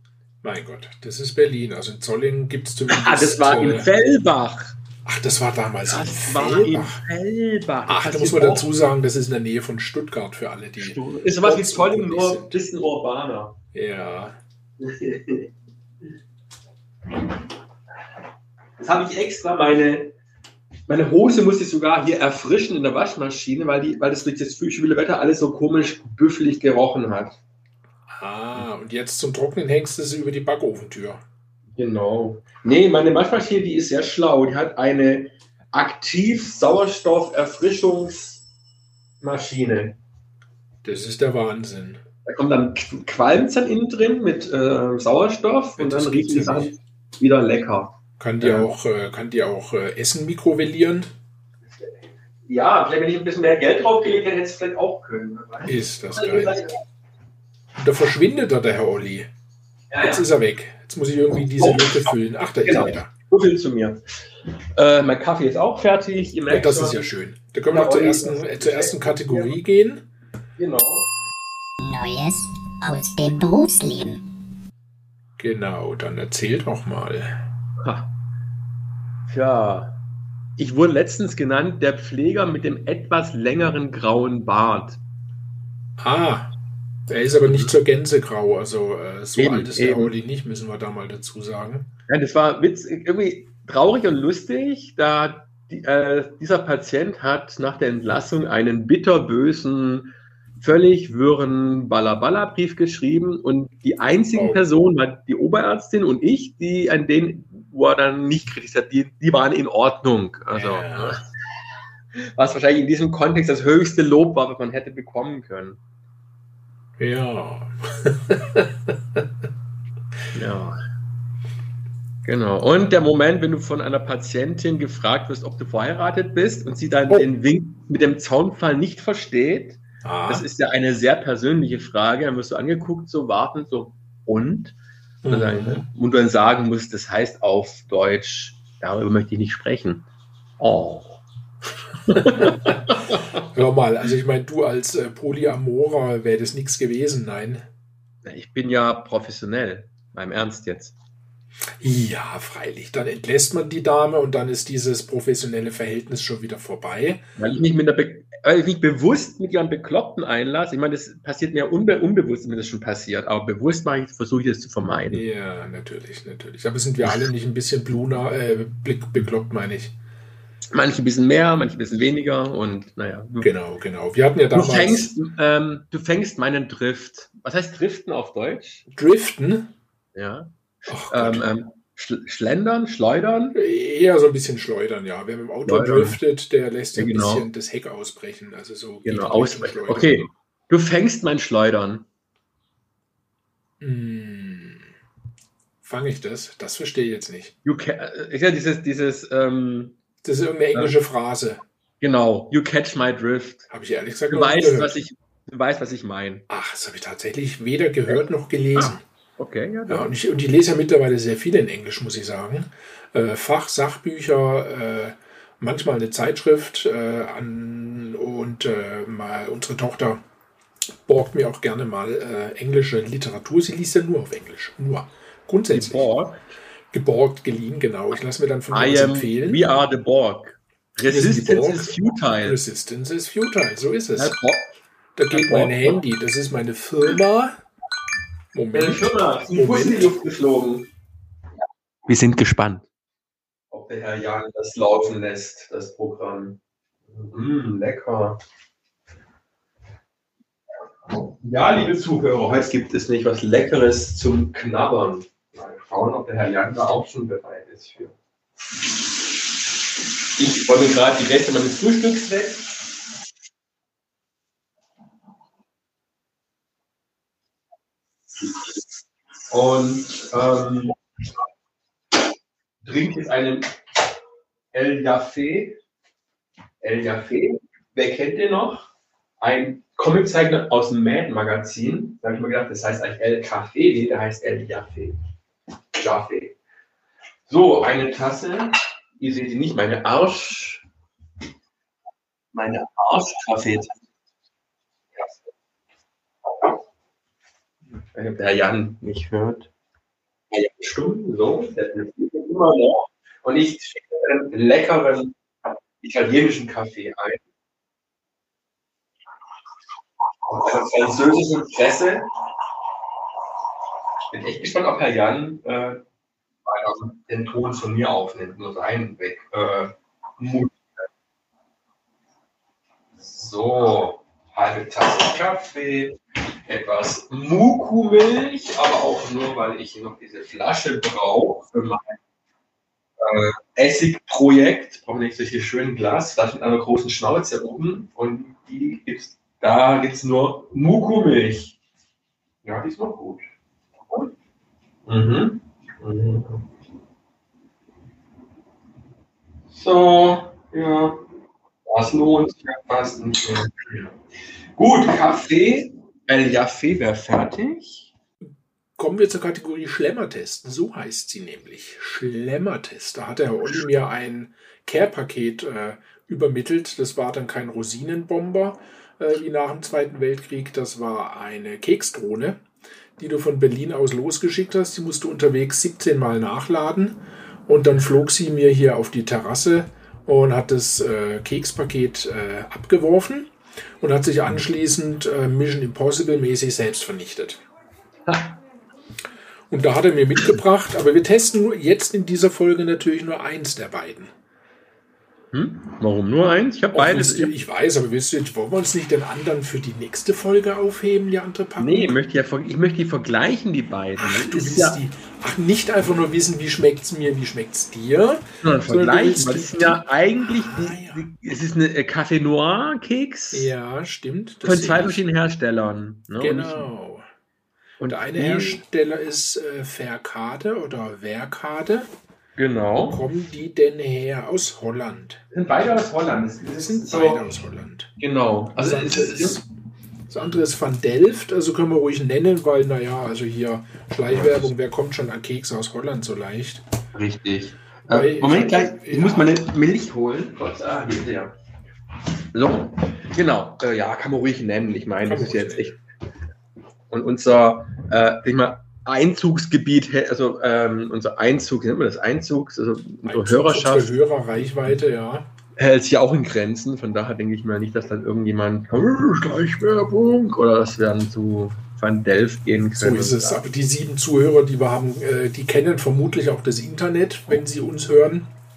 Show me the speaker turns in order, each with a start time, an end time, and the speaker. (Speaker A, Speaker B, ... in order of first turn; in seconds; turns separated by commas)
Speaker A: 0.4-3.9, Speaker B: 2.9-4.8, Speaker A: 5.0-7.0, Speaker B: 5.9-8.7, Speaker A: 7.9-12.6, Speaker B: 10.8-13.6, Speaker A: 13.7-14.4, Speaker B: 14.8-15.5, Speaker B: 18.8-20.1, Speaker B: 20.9-27.4, Speaker A: 28.1-31.2, Speaker B: 31.8-38.4, Speaker B: 39.2-40.0, Speaker A: 40.8-42.0, Speaker B: 42.2-48.7, Speaker A: 45.8-46.7, Speaker A: 48.2-51.1, Speaker B: 51.7-56.8, Speaker A: 55.7-56.6, Speaker A: 57.8-59.3, Speaker B: 59.9-60.2, Speaker A: 60.0-63.1, Speaker B: 61.6-62.0, Speaker B: 62.6-64.0, Speaker B: 64.8-67.1, Speaker A: 66.5-70.0, Speaker B: 67.7-69.5, Speaker B: 70.6-71.1, Speaker C: 71.8-74.2, Speaker A: 75.4-77.4, Speaker B: 77.8-78.1, Speaker B: 79.3-80.0, Speaker B: 80.6-85.0, Speaker A: 86.0-86.5, Speaker A: 87.1-91.9, Speaker B: 89.4-90.1, Speaker B: 92.1-111.3, Speaker A: 104.3-104.6, Speaker A: 110.5-111.2, Speaker B: 112.3-115.8, Speaker A: 117.0-119.3, Speaker B: 120.3-120.8, Speaker B: 122.2-140.1, Speaker A: 130.0-130.5, Speaker A: 135.2-135.8, Speaker B: 140.6-141.2, Speaker B: 142.1-143.4, Speaker A: 142.2-142.7, Speaker A: 143.4-147.7, Speaker B: 148.2-150.9, Speaker A: 151.8-157.2, Speaker B: 157.4-165.2, Speaker A: 165.1-169.9, Speaker B: 170.7-173.5, Speaker A: 173.4-175.1, Speaker B: 174.5-178.8, Speaker A: 178.9-179.7, Speaker B: 180.2-183.6, Speaker A: 180.9-181.5, Speaker A: 183.6-190.2, Speaker B: 185.7-186.2, Speaker B: 186.9-187.5, Speaker B: 189.1-192.1, Speaker A: 193.8-194.9, Speaker A: 195.8-197.6, Speaker B: 197.7-200.0, Speaker A: 200.2-201.6, Speaker B: 202.0-203.7, Speaker A: 203.7-204.9, Speaker B: 204.3-206.5, Speaker A: 206.5-209.0, Speaker B: 208.8-210.1, Speaker A: 209.9-220.2, Speaker A: 221.1-226.1, Speaker B: 225.7-226.4, Speaker A: 226.9-229.6, Speaker B: 228.7-232.6, Speaker A: 231.1-234.4, Speaker B: 234.2-234.8, Speaker A: 235.2-237.6, Speaker B: 235.3-236.0, Speaker A: 238.5-240.1, Speaker B: 238.7-240.9, Speaker B: 242.1-242.9, Speaker B: 243.7-246.6, Speaker B: 247.1-248.4, Speaker B: 251.2-258.1, Speaker B: 260.2-262.8, Speaker B: 269.5-270.9, Speaker B: 272.8-273.8, Speaker B: 274.7-275.8, Speaker B: 276.8-285.2, Speaker B: 285.9-286.6, Speaker B: 287.5-290.8, Speaker B: 292.5-294.0, Speaker B: 298.1-299.7, Speaker B: 300.5-305.4, Speaker B: 306.0-307.4, Speaker B: 310.5-312.3, Speaker B: 314.3-316.0, Speaker B: 316.7-320.9, Speaker B: 323.2-332.2, Speaker B: 333.2-341.8, Speaker B: 342.6-343.5, Speaker B: 345.1-346.7, Speaker B: 349.7-351.2, Speaker B: 351.9-354.1, Speaker B: 354.8-358.1, Speaker A: 359.0-372.6, Speaker A: 373.2-387.6, Speaker B: 388.3-388.6, Speaker A: 389.7-394.3, Speaker B: 395.5-397.5, Speaker A: 396.9-402.2, Speaker B: 401.8-405.0, Speaker A: 404.2-411.3, Speaker B: 408.6-413.7, Speaker A: 413.5-415.2, Speaker B: 414.6-416.9, Speaker A: 416.4-417.3, Speaker B: 418.0-418.8, Speaker A: 418.1-422.1, Speaker B: 422.6-423.2, Speaker A: 423.1-425.4, Speaker B: 425.5-427.4, Speaker A: 426.7-428.1, Speaker B: 428.2-429.6, Speaker A: 428.8-429.6, Speaker A: 430.3-436.8, Speaker B: 434.3-434.7, Speaker B: 437.1-441.5, Speaker A: 438.1-439.6, Speaker B: 442.5-446.0, Speaker A: 445.2-446.0, Speaker B: 447.1-454.2, Speaker A: 453.3-455.5, Speaker B: 455.8-463.6, Speaker A: 463.0-468.5